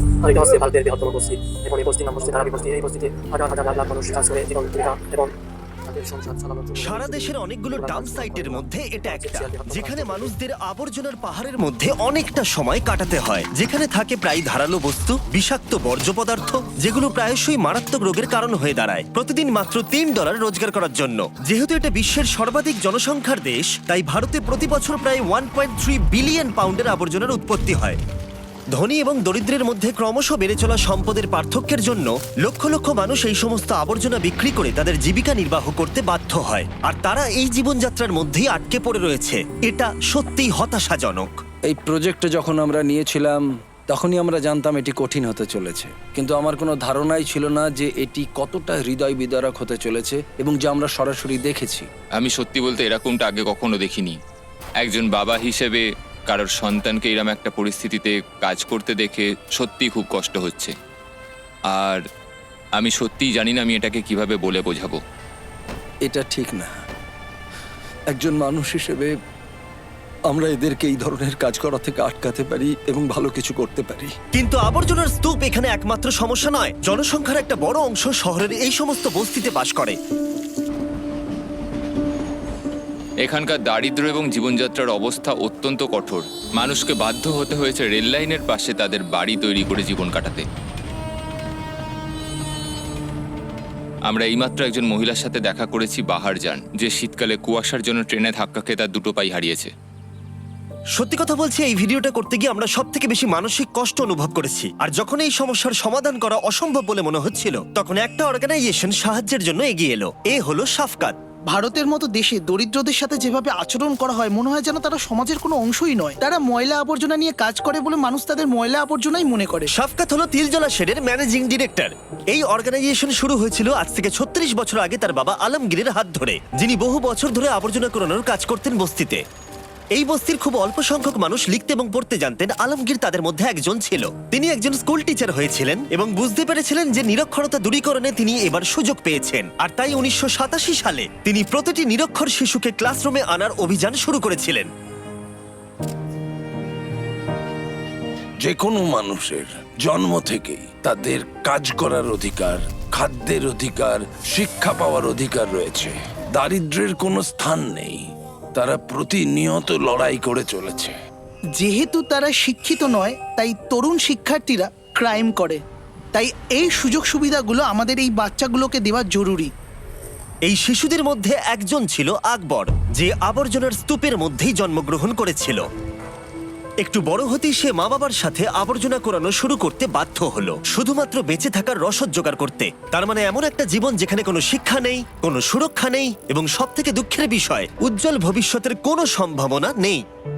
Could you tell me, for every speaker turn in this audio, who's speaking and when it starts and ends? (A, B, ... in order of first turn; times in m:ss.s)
0:00.2-0:05.3 A
0:05.9-0:10.3 A
0:06.8-0:28.0 B
0:28.7-0:41.3 B
0:41.7-0:51.9 C
0:52.2-0:54.2 D
0:54.8-1:00.7 D
1:01.7-1:02.0 D
1:02.8-1:05.0 D
1:06.1-1:06.8 C
1:08.1-1:09.1 C
1:10.3-1:14.2 C
1:14.3-1:20.0 B
1:23.2-1:30.4 D
1:34.1-1:39.7 D
1:41.0-1:51.2 B
1:51.5-1:59.7 E
1:59.7-2:09.2 B
2:10.0-2:24.7 B
2:28.4-2:41.0 F
2:41.6-2:45.6 E
2:46.2-2:49.5 E
2:50.5-2:55.6 B
2:56.8-3:10.0 B